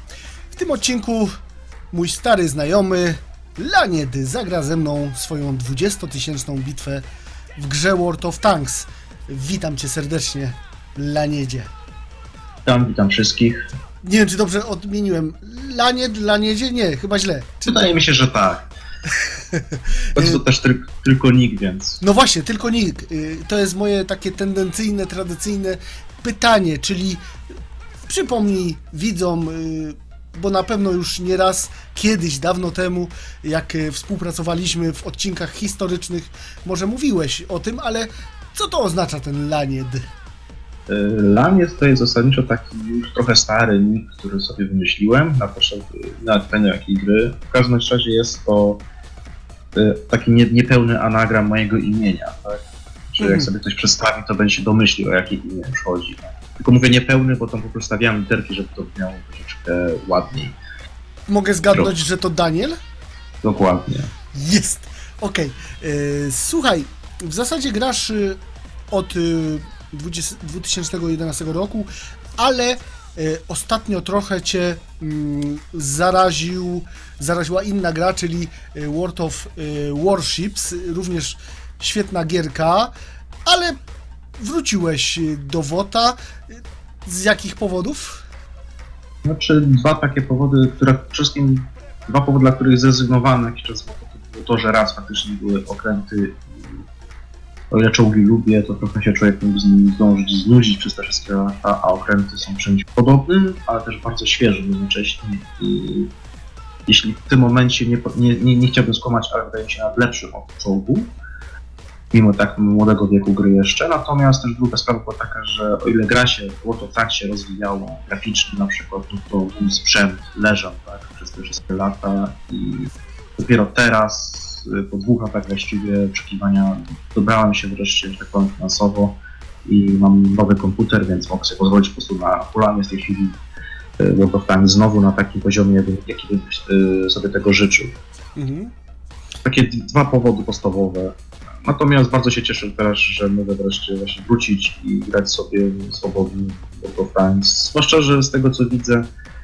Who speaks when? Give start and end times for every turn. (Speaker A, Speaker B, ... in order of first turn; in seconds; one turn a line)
Speaker A: 0.5-1.3
Speaker A: 1.9-7.0
Speaker A: 7.6-11.7
Speaker B: 12.6-13.6
Speaker A: 14.0-17.8
Speaker B: 17.6-18.7
Speaker A: 19.5-20.4
Speaker B: 20.1-22.0
Speaker A: 22.0-27.3
Speaker A: 28.1-40.0
Speaker B: 40.9-48.9
Speaker B: 49.7-60.6
Speaker A: 53.2-53.5
Speaker A: 61.3-62.8
Speaker B: 63.4-64.1
Speaker A: 64.3-68.4
Speaker A: 68.9-82.9
Speaker A: 83.5-83.8
Speaker A: 84.4-88.2
Speaker B: 89.2-96.8
Speaker B: 97.7-106.1
Speaker B: 106.9-111.1
Speaker B: 112.1-133.4
Speaker B: 134.0-137.9
Speaker A: 138.4-138.7
Speaker B: 139.4-149.1